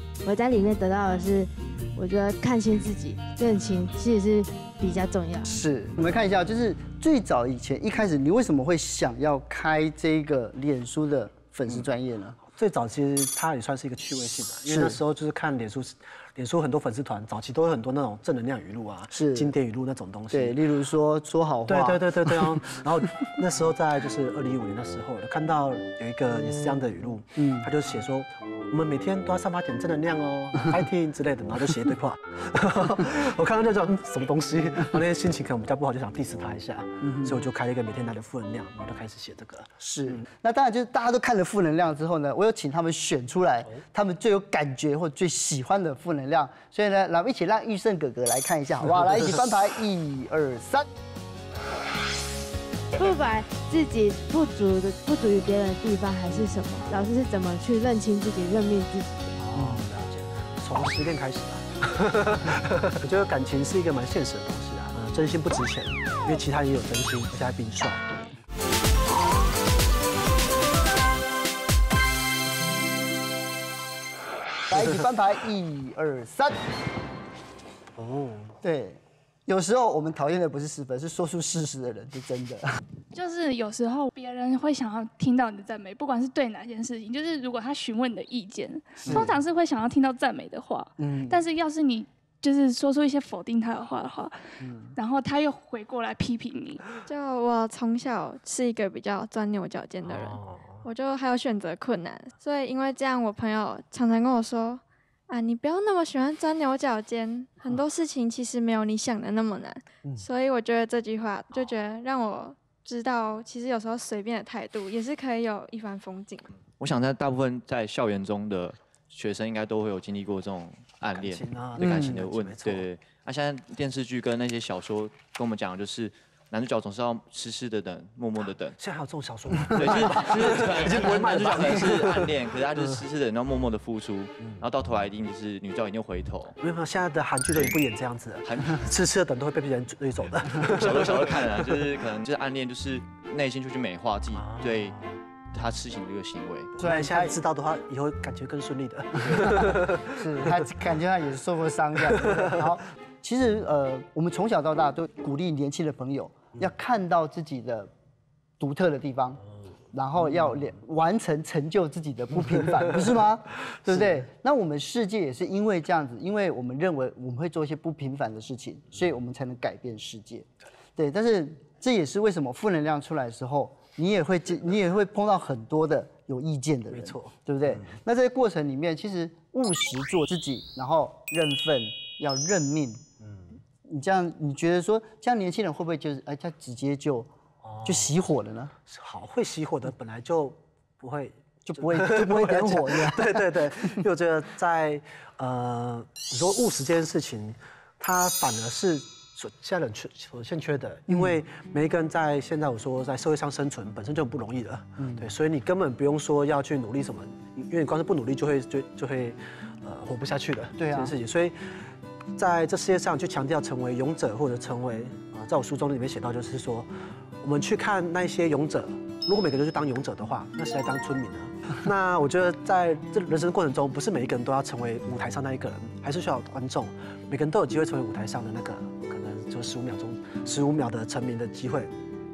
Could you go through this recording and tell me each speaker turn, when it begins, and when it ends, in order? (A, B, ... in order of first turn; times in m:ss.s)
0:00.2-0:05.5 A
0:05.4-0:12.4 B
0:12.5-0:20.6 C
0:14.6-0:15.0 B
0:19.1-0:19.5 B
0:20.3-0:22.6 B
0:21.7-0:40.2 C
0:27.4-0:27.7 B
0:37.0-0:37.4 B
0:39.8-0:50.8 B
0:52.9-0:59.3 A
0:59.4-1:08.2 C
0:59.6-0:59.8 B
1:14.7-1:16.6 B
1:18.0-1:18.6 C
1:18.6-1:22.8 B
1:23.1-1:34.4 D
1:29.0-1:29.4 B
1:31.0-1:31.4 B
1:34.6-1:34.9 B
1:34.9-1:36.9 D
1:37.0-1:56.5 E
1:40.0-1:40.8 C
1:56.8-2:08.8 F
2:01.1-2:02.9 C
2:01.8-2:02.1 B
2:08.8-2:12.9 C
2:09.7-2:16.6 F
2:16.6-2:21.8 C
2:18.4-2:18.8 F
2:20.6-2:26.7 F
2:24.3-2:25.0 C
2:26.8-2:27.3 B
2:26.8-2:30.6 C
2:29.2-2:37.9 B
2:32.2-2:32.7 C
2:38.6-3:03.0 B
2:43.8-2:44.1 C
2:56.9-2:57.3 C
3:03.8-3:07.3 B
3:07.6-3:08.1 C
3:07.8-3:08.7 B
3:08.9-3:36.9 C
3:11.7-3:14.0 B
3:21.1-3:21.4 B
3:25.0-3:25.3 B
3:30.8-3:31.1 B
3:37.4-3:51.9 C